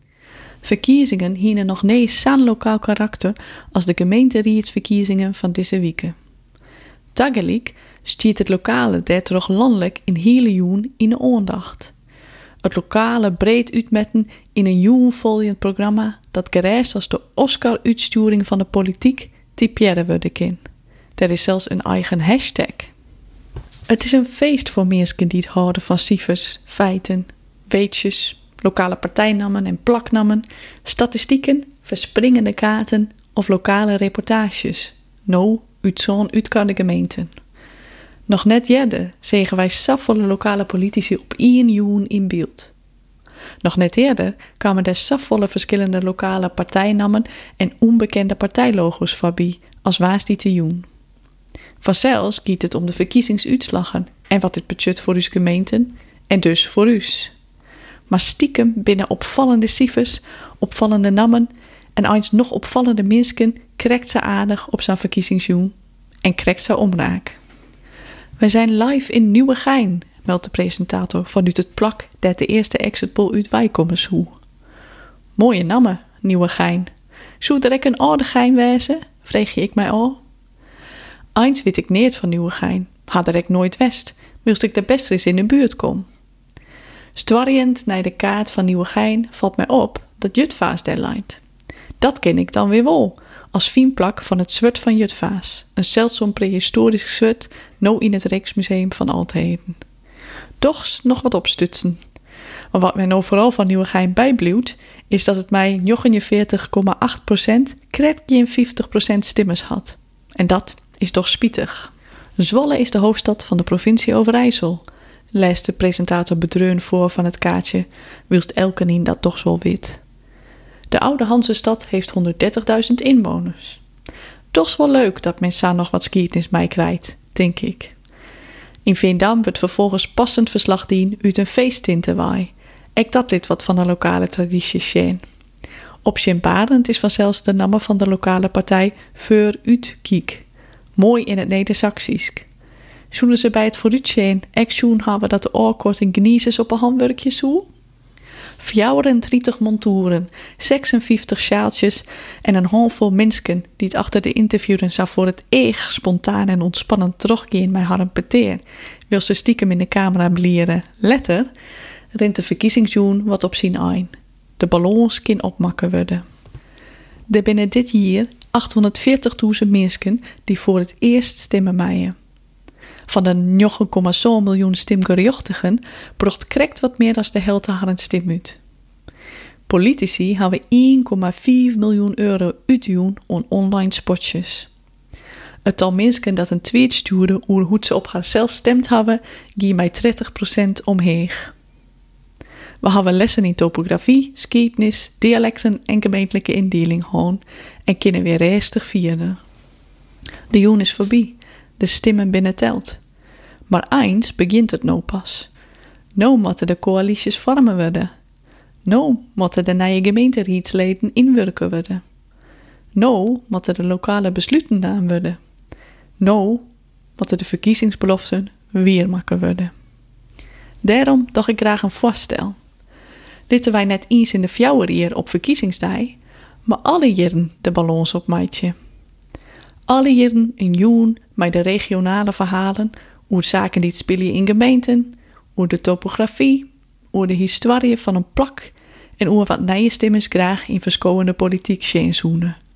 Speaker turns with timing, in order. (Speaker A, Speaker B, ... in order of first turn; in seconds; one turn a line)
Speaker A: 0.6-6.1
Speaker A: 7.1-11.9
Speaker A: 12.6-20.6
Speaker A: 21.2-22.9
Speaker A: 23.9-37.3
Speaker A: 38.3-42.7
Speaker A: 43.6-50.9
Speaker A: 51.8-57.3
Speaker A: 58.1-67.4
Speaker A: 68.4-74.3
Speaker A: 75.3-80.2
Speaker A: 81.3-86.0
Speaker A: 87.2-91.4
Speaker A: 92.0-99.8
Speaker A: 100.6-102.0
Speaker A: 102.7-120.0
Speaker A: 120.9-123.8
Speaker A: 124.5-127.9
Speaker A: 128.8-135.2
Speaker A: 136.0-140.4
Speaker A: 140.9-142.5
Speaker A: 143.1-147.7
Speaker A: 148.6-161.5
Speaker A: 162.1-166.2
Speaker A: 167.3-172.1
Speaker A: 173.1-178.6
Speaker A: 179.7-184.7
Speaker A: 185.6-191.5
Speaker A: 192.8-199.4
Speaker A: 200.5-203.0
Speaker A: 203.7-205.5
Speaker A: 206.2-208.1
Speaker A: 208.8-212.0
Speaker A: 212.9-215.4
Speaker A: 216.2-216.6
Speaker A: 217.2-219.7
Speaker A: 220.8-222.6
Speaker A: 223.5-228.7
Speaker A: 229.9-242.6